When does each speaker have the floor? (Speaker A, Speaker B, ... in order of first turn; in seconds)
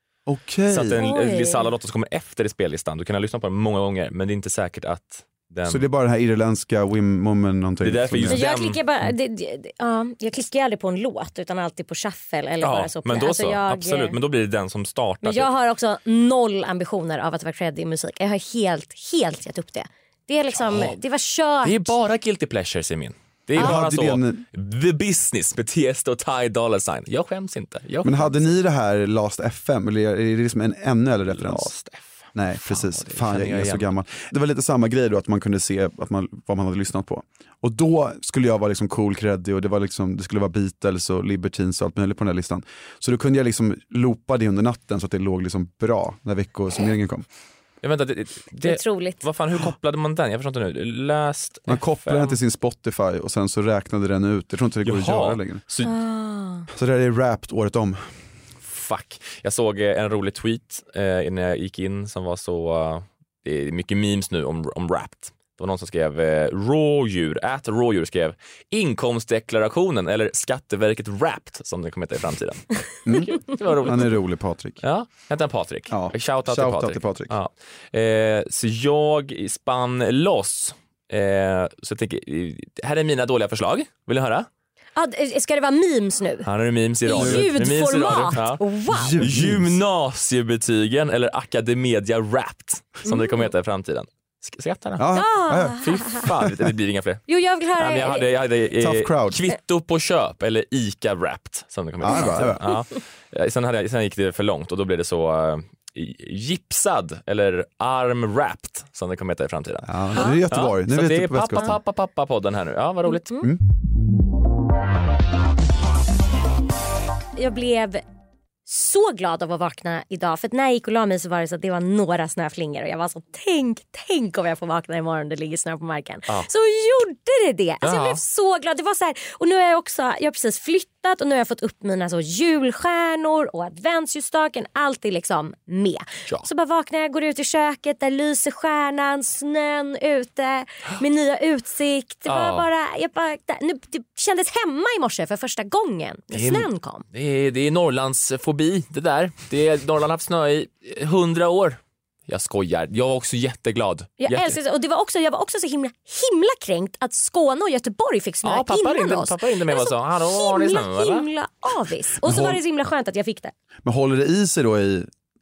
Speaker A: 0.3-1.0, 5.7-8.4, 23.6-24.4, 28.0-31.7, 32.3-47.3, 51.7-55.6, 56.7-58.0, 73.1-74.8, 75.9-77.3, 87.2-87.5, 88.9-89.8, 95.0-96.7, 98.8-99.4, 102.0-102.6, 109.8-111.8, 162.2-162.6, 163.8-165.1
Speaker B: 0.7-5.8, 7.8-8.8, 12.6-15.5, 20.6-21.0, 21.6-28.4, 31.3-33.9, 47.8-52.4, 54.8-55.9, 58.6-74.2, 74.8-84.5, 86.5-88.6, 89.2-95.1, 95.8-97.2, 97.8-113.3, 127.8-128.2, 142.3-142.7, 146.3-154.6, 158.4-161.3
Speaker C: 1.0-1.7, 8.3-14.2, 15.2-21.9, 48.6-49.2, 55.8-56.7, 85.0-86.5, 87.0-89.2, 95.1-96.2, 97.3-98.2, 117.4-118.0, 118.7-147.0, 154.2-163.5